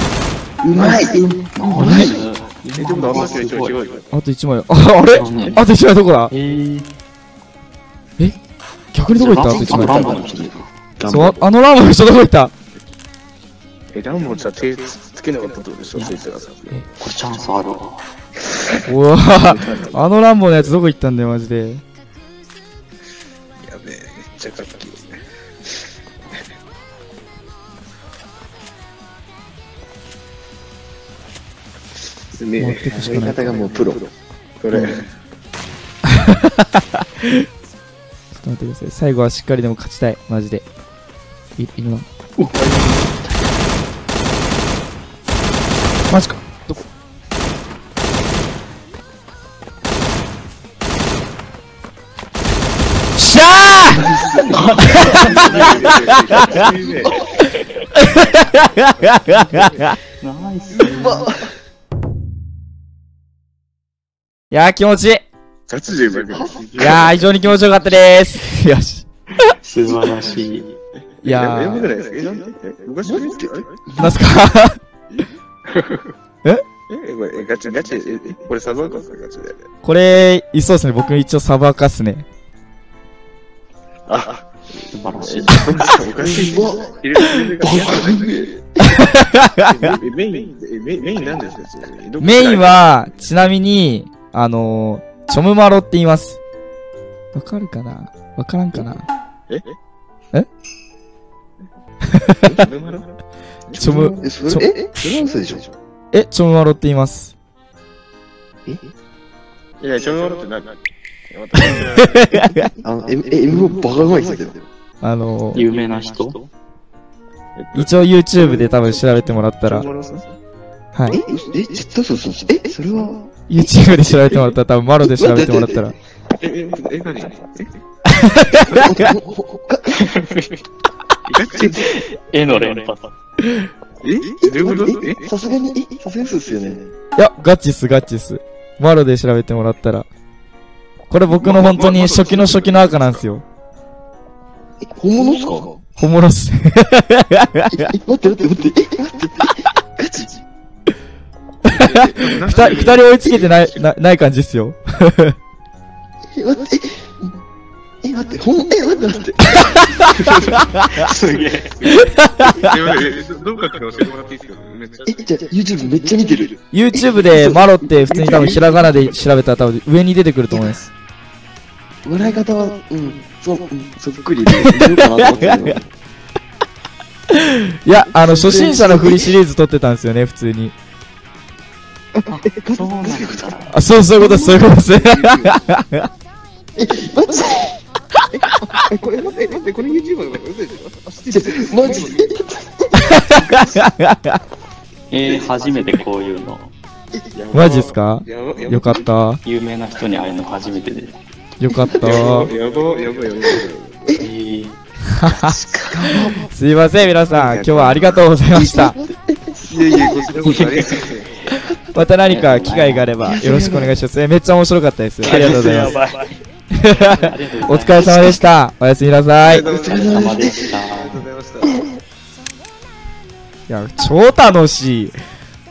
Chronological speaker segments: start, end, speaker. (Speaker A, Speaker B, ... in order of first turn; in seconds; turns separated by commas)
Speaker A: 0.6-2.0, Speaker B: 0.7-3.9, Speaker C: 1.7-2.2, Speaker D: 2.8-4.0, Speaker C: 4.1-6.3, Speaker B: 5.1-5.6, Speaker B: 6.3-6.9, Speaker C: 8.9-10.1, Speaker A: 9.2-10.6, Speaker B: 9.2-10.7, Speaker D: 11.0-11.5, Speaker C: 11.1-12.5, Speaker D: 13.9-16.9, Speaker B: 15.9-18.1, Speaker C: 18.9-21.9, Speaker D: 19.4-20.0, Speaker D: 23.6-25.2, Speaker D: 32.4-34.0, Speaker C: 32.5-33.7, Speaker A: 32.9-34.1, Speaker D: 34.6-35.1, Speaker A: 34.7-35.0, Speaker C: 36.1-37.5, Speaker C: 38.3-40.6, Speaker C: 41.6-42.1, Speaker B: 42.4-43.6, Speaker C: 46.1-46.8, Speaker C: 53.1-54.1, Speaker A: 53.9-55.6, Speaker B: 54.2-56.4, Speaker D: 54.8-58.4, Speaker C: 55.0-56.3, Speaker A: 56.6-57.2, Speaker C: 57.9-60.0, Speaker D: 59.0-59.7, Speaker B: 60.2-61.3, Speaker A: 60.8-61.5, Speaker C: 64.5-65.2, Speaker D: 65.7-67.5, Speaker A: 66.3-66.8, Speaker C: 66.8-69.5, Speaker B: 69.6-70.8, Speaker C: 71.2-71.9, Speaker D: 71.2-73.8, Speaker A: 73.0-74.2, Speaker C: 74.0-74.8, Speaker D: 76.9-79.6, Speaker C: 79.8-82.2, Speaker D: 84.1-88.3, Speaker B: 84.9-85.7, Speaker A: 86.1-89.0, Speaker C: 88.9-89.8, Speaker D: 89.5-93.0, Speaker C: 92.2-96.4, Speaker C: 97.3-99.1, Speaker D: 99.5-99.8, Speaker C: 102.0-102.6, Speaker D: 102.4-103.1, Speaker C: 103.8-104.7, Speaker A: 103.8-105.7, Speaker C: 106.1-107.3, Speaker D: 109.8-110.8, Speaker D: 111.3-112.2, Speaker C: 111.7-112.7, Speaker A: 112.8-114.6, Speaker D: 113.9-114.2, Speaker C: 115.0-115.7, Speaker B: 115.5-116.5, Speaker D: 117.5-120.3, Speaker C: 117.7-119.9, Speaker C: 120.9-121.2, Speaker A: 121.1-123.2, Speaker C: 123.5-125.9, Speaker A: 125.0-125.9, Speaker D: 126.4-127.7, Speaker C: 128.1-129.1, Speaker A: 128.8-130.0, Speaker B: 130.0-130.4, Speaker B: 131.3-133.1, Speaker D: 131.3-131.9, Speaker A: 131.5-132.0, Speaker D: 134.0-135.2, Speaker A: 134.5-136.9, Speaker C: 137.2-140.1, Speaker C: 141.1-143.4, Speaker D: 141.3-143.2, Speaker A: 144.8-145.8, Speaker C: 146.0-147.9, Speaker A: 147.7-150.4, Speaker C: 151.6-155.4, Speaker D: 151.8-153.8, Speaker A: 156.3-157.2, Speaker A: 158.0-159.6, Speaker C: 159.6-160.1, Speaker B: 160.1-162.0, Speaker C: 160.7-161.0, Speaker D: 161.6-165.1, Speaker C: 161.8-162.8, Speaker A: 165.1-168.8, Speaker C: 166.7-170.9, Speaker A: 170.5-170.8, Speaker A: 172.0-175.9, Speaker C: 174.5-175.7, Speaker C: 177.3-180.7, Speaker A: 177.9-179.4, Speaker A: 182.2-183.4, Speaker B: 182.3-183.8, Speaker C: 183.7-186.1, Speaker A: 184.2-184.6, Speaker A: 186.8-187.8, Speaker A: 188.8-189.5, Speaker D: 189.4-192.2, Speaker A: 191.3-193.2, Speaker C: 193.0-194.4, Speaker B: 195.1-196.7, Speaker D: 197.3-199.1, Speaker C: 197.5-199.4, Speaker B: 199.4-201.2, Speaker C: 201.6-202.5, Speaker A: 202.0-202.2, Speaker D: 202.0-204.2, Speaker B: 204.2-204.8, Speaker C: 205.1-205.5, Speaker A: 205.3-206.5, Speaker C: 206.1-209.0, Speaker D: 207.2-208.3, Speaker A: 208.5-210.4, Speaker D: 209.6-211.5, Speaker B: 210.4-211.0, Speaker A: 211.5-211.8, Speaker C: 211.9-215.9, Speaker B: 212.3-213.4, Speaker A: 213.2-214.0, Speaker B: 215.2-216.4, Speaker D: 215.3-215.9, Speaker C: 216.7-219.7, Speaker B: 217.1-218.4, Speaker D: 219.4-221.9, Speaker A: 219.6-220.7, Speaker B: 219.7-221.2, Speaker C: 223.7-225.2